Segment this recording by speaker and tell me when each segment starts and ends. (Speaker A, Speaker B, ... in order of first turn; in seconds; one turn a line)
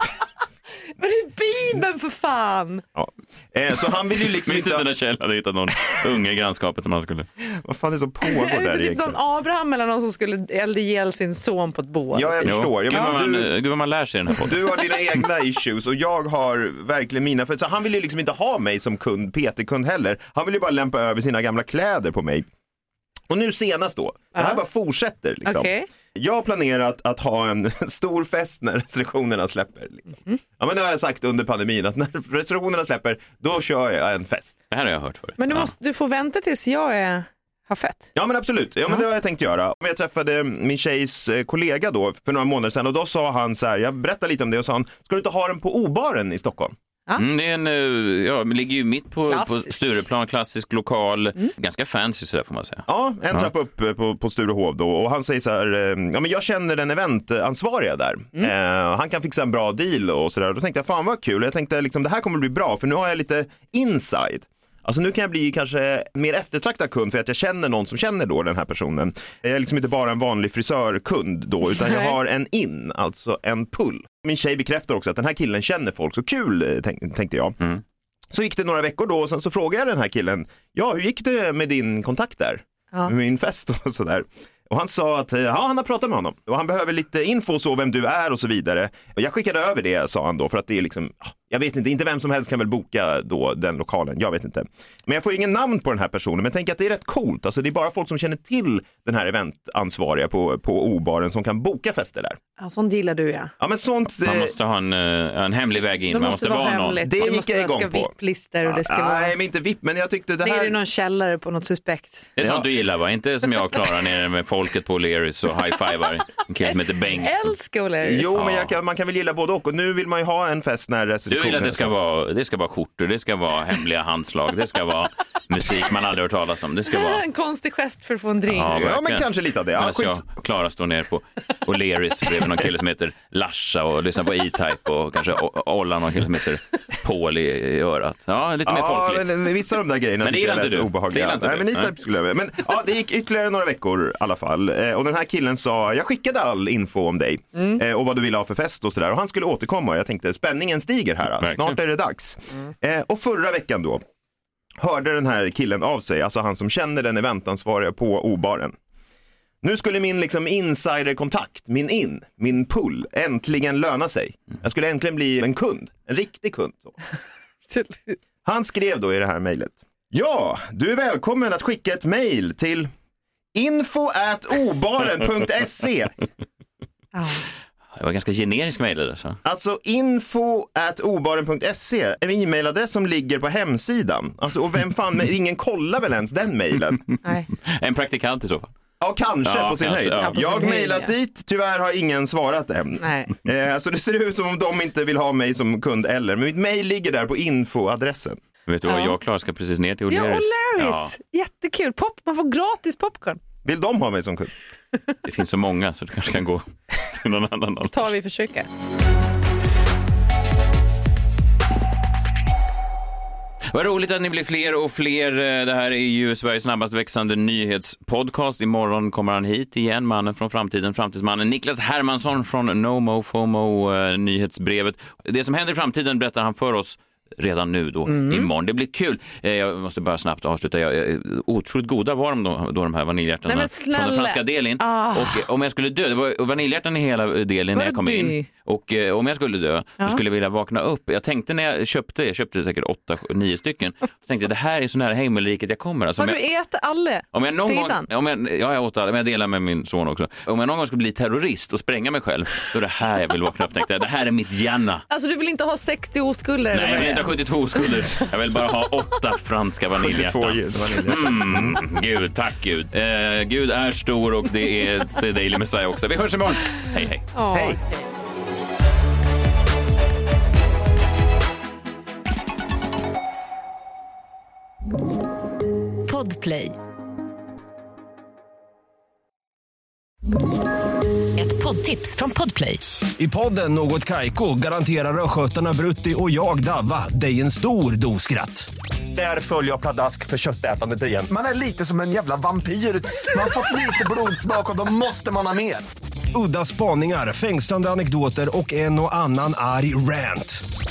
Speaker A: 1.0-2.8
Speaker B: 2.9-4.8
Speaker C: 4.4-7.3
Speaker B: 7.5-9.2
Speaker A: 8.2-13.2
Speaker B: 12.1-13.5
Speaker C: 12.4-14.6
Speaker B: 14.4-22.4
Speaker B: 23.3-34.6
Speaker A: 24.3-24.6
Speaker A: 25.4-25.9
Speaker C: 34.7-35.7
Speaker A: 35.4-38.1
Speaker B: 38.1-46.7
Speaker C: 47.1-53.5
Speaker A: 49.2-49.7
Speaker B: 52.9-77.5
Speaker B: 78.3-102.4
Speaker A: 102.6-103.5
Speaker B: 103.6-104.5
Speaker C: 104.2-107.0
Speaker A: 106.1-109.3
Speaker B: 107.0-108.1
Speaker B: 108.7-110.8
Speaker A: 110.4-112.3
Speaker C: 112.4-117.5
Speaker B: 112.4-112.7
Speaker A: 117.0-118.4
Speaker B: 118.0-121.9
Speaker C: 118.3-118.7
Speaker C: 121.3-127.2
Speaker A: 126.9-128.8
Speaker C: 128.5-139.2
Speaker B: 128.7-130.2
Speaker B: 138.7-154.0
Speaker C: 140.2-141.9
Speaker C: 151.4-151.8
Speaker B: 154.8-158.8
Speaker B: 159.6-166.9
Speaker A: 167.7-168.2
Speaker B: 168.4-172.9
Speaker B: 173.5-176.2
Speaker A: 177.1-177.4
Speaker C: 177.9-179.4
Speaker B: 179.4-187.2
Speaker C: 187.6-188.7
Speaker B: 189.0-198.4
Speaker C: 189.4-190.4
Speaker A: 190.2-191.1
Speaker A: 193.0-193.3
Speaker C: 198.7-201.1
Speaker A: 198.9-199.2
Speaker A: 200.1-203.4
Speaker B: 203.6-204.5
Speaker C: 205.2-208.1
Speaker A: 207.9-208.7
Speaker C: 213.7-246.4
Speaker A: 228.1-228.5
Speaker A: 233.4-235.4
Speaker A: 237.7-238.5
Speaker A: 246.2-248.1
Speaker C: 247.3-255.0
Speaker A: 255.1-258.3
Speaker C: 256.7-267.3
Speaker B: 259.9-261.8
Speaker A: 267.3-268.0
Speaker B: 267.5-267.8
Speaker D: 276.0-276.7
Speaker D: 281.4-282.8
Speaker E: 283.2-291.3
Speaker F: 291.3-295.8
Speaker E: 296.3-300.6